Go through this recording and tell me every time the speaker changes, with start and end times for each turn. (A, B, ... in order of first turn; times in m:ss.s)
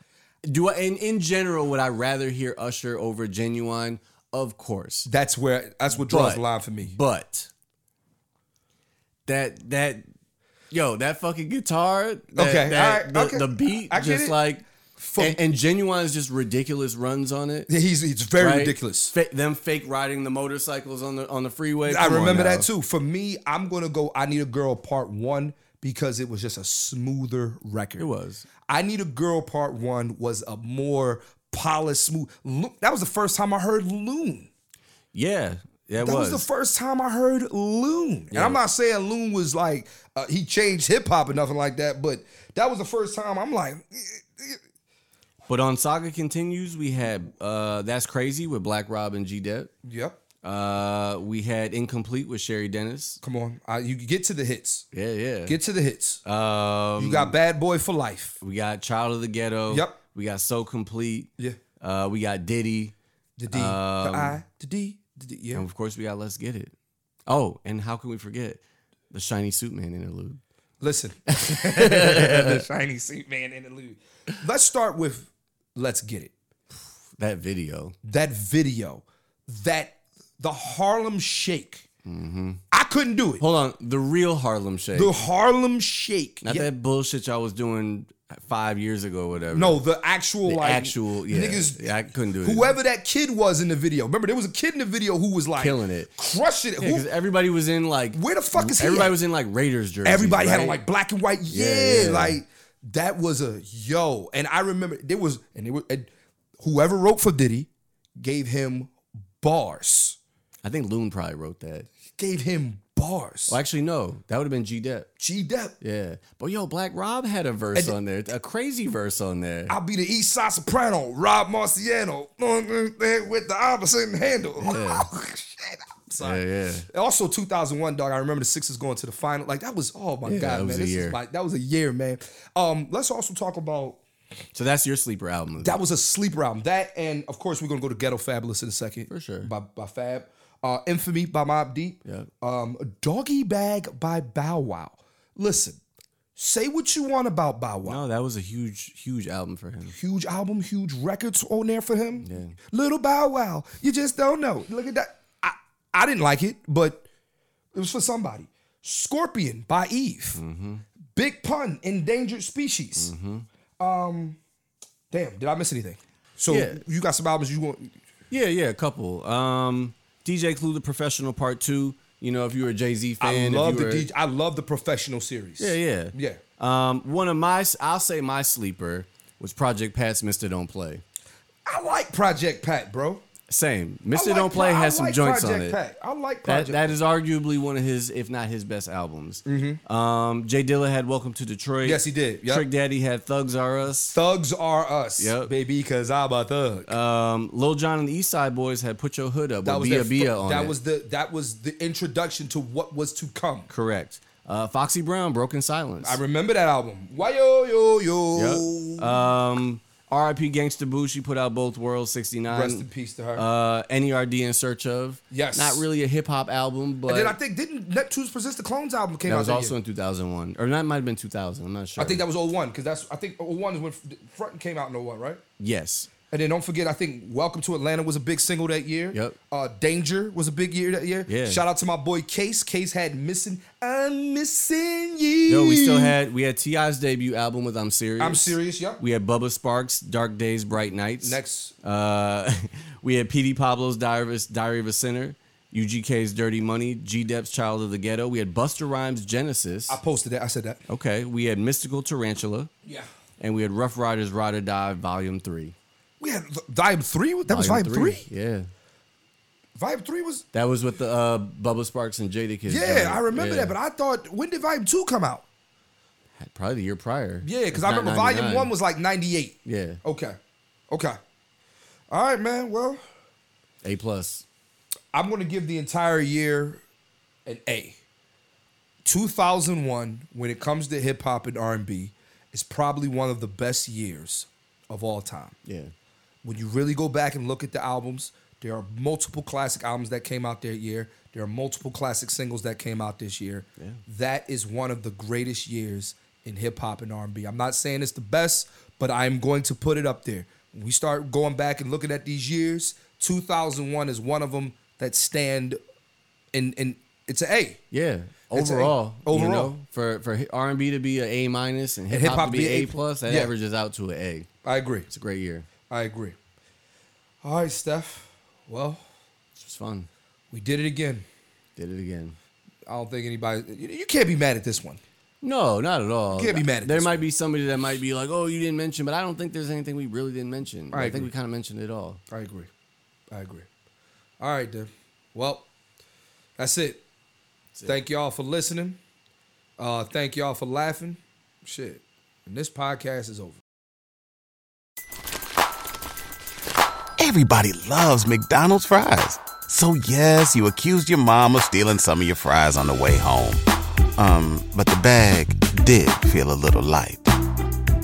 0:00.4-0:05.1 A
0:05.1-0:07.0 B
0:06.0-0:07.5 A
0:09.3-0:10.1 A
0:10.7-0:14.6 A
0:12.4-0:14.4 B
0:15.0-0:15.4 B
0:15.2-0:17.7 A
0:17.7-0:19.1 B
0:18.4-0:22.7 A
0:21.9-0:28.1 B
0:28.0-0:28.5 A
0:28.7-0:34.5 B
0:35.1-0:36.5 A
0:36.0-0:44.6 B
0:38.3-0:38.6 A
0:45.5-0:49.7 A
0:49.8-0:50.2 B
0:50.4-0:53.2 A
0:53.2-0:54.9 B
0:54.9-0:55.6 A
0:55.5-0:56.2 B
0:56.2-0:57.4 A
0:57.0-0:58.4 B
0:58.4-1:02.9 A
0:59.7-1:00.0 B
1:03.4-1:05.6 B
1:03.5-1:04.4 A
1:05.5-1:06.7 A
1:07.3-1:10.4 A
1:10.8-1:16.3 B
1:11.3-1:12.6 A
1:17.2-1:18.0 A
1:18.0-1:21.9 B
1:22.0-1:22.6 A
1:22.7-1:23.4 B
1:23.4-1:25.2 A
1:24.9-1:26.7 B
1:26.4-1:29.8 A
1:29.5-1:31.9 B
1:30.4-1:32.7 A
1:32.4-1:37.1 B
1:35.6-1:36.1 A
1:36.8-1:40.8 A
1:38.1-1:39.2 B
1:40.0-1:50.2 B
1:41.5-1:42.4 A
1:50.6-1:51.9 A
1:52.1-1:53.6 B
1:53.5-1:55.1 A
1:55.2-1:55.8 B
1:55.8-1:59.8 A
1:59.7-2:14.0 B
2:04.6-2:05.1 A
2:06.2-2:06.9 A
2:10.2-2:11.2 A
2:14.6-2:15.8 A
2:15.6-2:25.8 B
2:19.1-2:19.5 A
2:22.0-2:22.3 A
2:26.4-2:28.0 B
2:27.8-2:30.0 A
2:29.9-2:37.1 B
2:32.2-2:32.6 A
2:37.7-2:40.4 B
2:40.4-2:40.8 A
2:41.1-2:43.1 B
2:43.0-2:43.5 A
2:43.8-2:44.4 B
2:45.1-2:48.0 B
2:46.5-2:46.8 A
2:48.3-2:54.1 A
2:53.2-2:56.4 B
2:55.6-3:01.0 A
3:01.7-3:03.2 B
3:03.5-3:05.8 A
3:04.1-3:07.0 B
3:06.5-3:14.2 A
3:09.5-3:09.8 B
3:11.8-3:12.6 B
3:14.1-3:17.0 B
3:15.2-3:15.5 A
3:16.9-3:20.8 A
3:19.6-3:23.7 B
3:23.7-3:26.2 A
3:26.0-3:29.2 B
3:28.4-3:37.4 A
3:32.5-3:33.4 B
3:35.3-3:35.8 B
3:37.1-3:39.8 B
3:39.3-3:42.2 A
3:42.0-3:45.4 B
3:45.6-3:46.1 A
3:46.3-3:56.2 B
3:49.1-3:49.4 A
3:51.3-3:51.6 A
3:55.5-4:10.0 A
3:58.2-3:59.0 B
4:01.2-4:01.8 B
4:09.9-4:10.8 B
4:10.9-4:12.7 A
4:13.4-4:15.8 A
4:16.2-4:18.3 B
4:17.5-4:18.7 A
4:19.8-4:20.4 B
4:20.5-4:23.8 A
4:22.7-4:25.4 B
4:26.4-4:28.7 A
4:27.4-4:30.4 B
4:29.6-4:30.0 A
4:30.9-4:31.2 B
4:32.1-4:33.0 B
4:33.8-4:34.4 A
4:35.1-4:36.8 B
4:37.5-4:38.0 B
4:39.0-4:45.6 B
4:45.6-4:45.9 A
4:46.4-5:05.8 B
5:06.5-5:07.8 B
5:07.9-5:14.5 A
5:08.5-5:09.7 B
5:12.1-5:13.5 B
5:14.6-5:15.1 B
5:15.1-5:15.7 A
5:15.9-5:16.4 B
5:17.4-5:19.0 B
5:19.6-5:20.1 A
5:20.5-5:21.3 B
5:21.8-5:22.4 A
5:22.9-5:25.0 B
5:25.4-5:32.2 A
5:26.3-5:27.2 B
5:30.9-5:31.3 B
5:32.3-5:32.7 B
5:33.3-5:33.7 B
5:34.4-5:35.7 B
5:36.6-5:37.0 B
5:37.8-5:38.0 A
5:37.9-5:39.0 B
5:39.8-5:43.6 B
5:47.2-5:53.6 C
5:54.2-5:57.3 C